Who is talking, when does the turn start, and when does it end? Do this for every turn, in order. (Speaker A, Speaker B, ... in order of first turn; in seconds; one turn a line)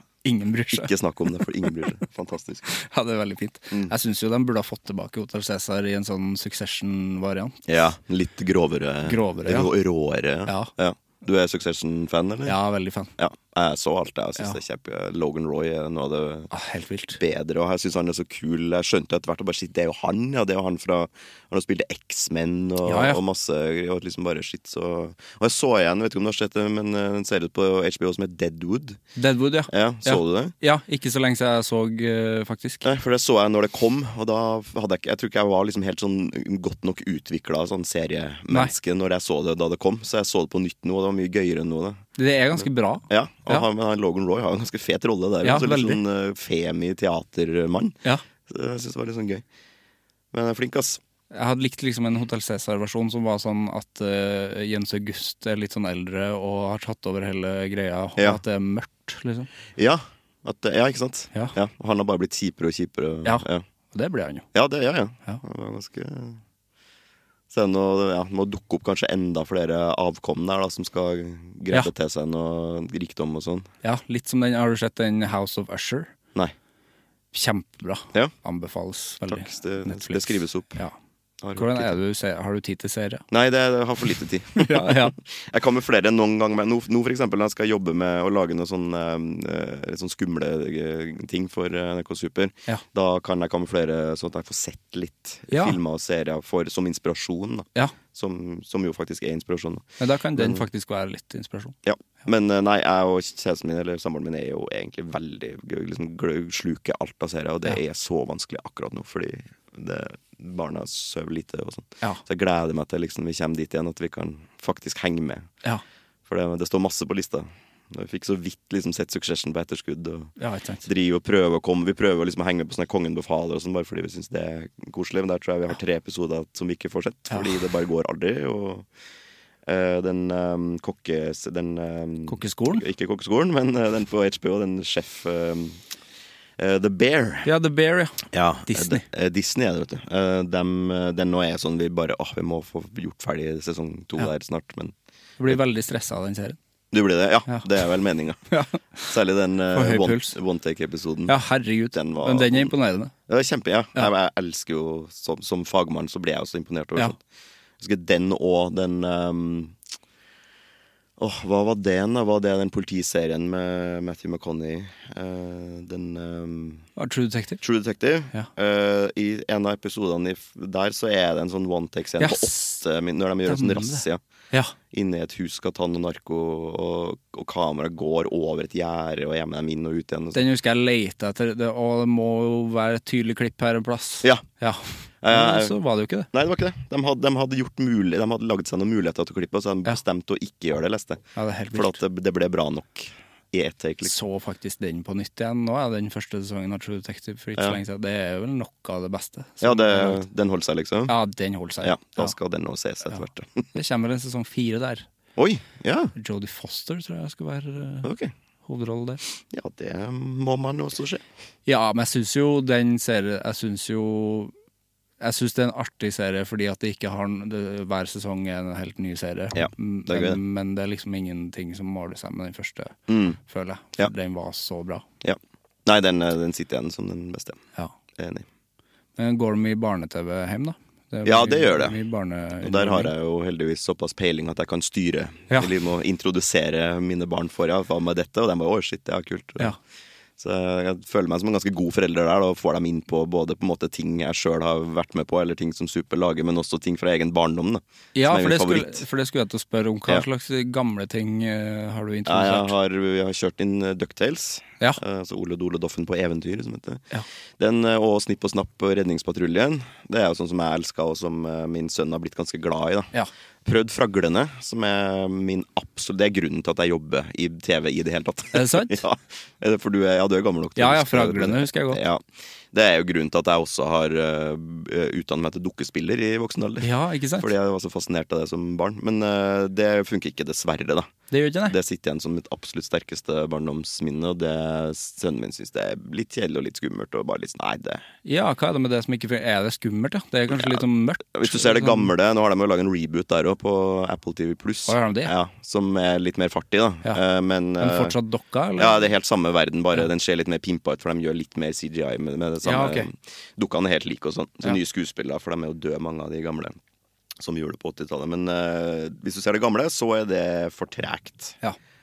Speaker A: 0.2-0.9
Speaker B: 0.7-2.7
Speaker A: 2.7-7.6
Speaker B: 7.7-12.6
Speaker A: 9.0-9.7
Speaker A: 10.4-10.7
Speaker A: 12.4-13.1
Speaker B: 13.2-16.5
Speaker A: 16.5-17.2
Speaker B: 17.2-29.0
Speaker A: 22.8-23.2
Speaker A: 29.1-32.9
Speaker B: 29.7-30.5
Speaker B: 32.8-42.0
Speaker A: 42.2-43.7
Speaker B: 42.5-49.4
Speaker A: 45.4-46.0
Speaker B: 50.3-51.0
Speaker A: 51.3-59.5
Speaker B: 59.8-63.6
Speaker A: 63.2-64.5
Speaker B: 64.5-66.4
Speaker B: 67.5-73.7
Speaker A: 73.8-76.1
Speaker A: 77.3-80.9
Speaker B: 79.3-80.8
Speaker B: 81.4-82.0
Speaker A: 81.5-83.2
Speaker B: 83.3-100.6
Speaker A: 84.5-85.1
Speaker A: 95.5-95.8
Speaker A: 100.0-101.7
Speaker B: 101.8-115.5
Speaker B: 116.2-120.3
Speaker A: 120.4-120.8
Speaker B: 120.8-128.9
Speaker B: 129.7-135.8
Speaker A: 132.3-132.8
Speaker B: 136.6-137.5
Speaker A: 137.4-139.0
Speaker B: 138.3-144.9
Speaker A: 145.4-146.6
Speaker B: 146.9-148.4
Speaker A: 148.5-149.1
Speaker B: 149.1-151.4
Speaker A: 149.7-150.3
Speaker A: 151.3-153.1
Speaker B: 151.9-152.7
Speaker B: 153.3-157.2
Speaker B: 157.8-159.8
Speaker B: 161.2-166.8
Speaker A: 167.0-167.6
Speaker B: 167.6-174.2
Speaker A: 172.2-172.8
Speaker A: 173.4-174.7
Speaker B: 174.9-180.5
Speaker A: 180.3-186.3
Speaker B: 185.2-185.8
Speaker B: 186.3-194.1
Speaker A: 191.3-192.0
Speaker A: 194.0-200.2
Speaker B: 199.6-201.1
Speaker A: 201.1-202.3
Speaker B: 201.8-203.7
Speaker A: 203.7-205.1
Speaker B: 205.4-206.1
Speaker A: 206.2-208.1
Speaker B: 208.0-208.3
Speaker A: 208.6-209.2
Speaker B: 209.5-211.2
Speaker A: 211.7-214.5
Speaker A: 215.2-225.0
Speaker B: 219.5-220.4
Speaker B: 223.1-223.4
Speaker B: 225.2-227.6
Speaker B: 228.2-228.5
Speaker A: 229.2-233.1
Speaker B: 231.2-232.0
Speaker B: 232.6-239.8
Speaker B: 240.4-249.1
Speaker A: 248.1-252.7
Speaker B: 252.2-257.0
Speaker B: 257.6-263.1
Speaker B: 263.6-281.1
Speaker A: 268.5-269.0
Speaker A: 270.8-272.0
Speaker A: 276.8-277.5
Speaker A: 281.3-281.8
Speaker B: 281.6-288.0
Speaker A: 288.2-292.1
Speaker B: 290.5-298.2
Speaker A: 294.9-295.3
Speaker A: 297.8-299.1
Speaker B: 298.8-306.8
Speaker A: 302.6-303.1
Speaker B: 307.4-311.6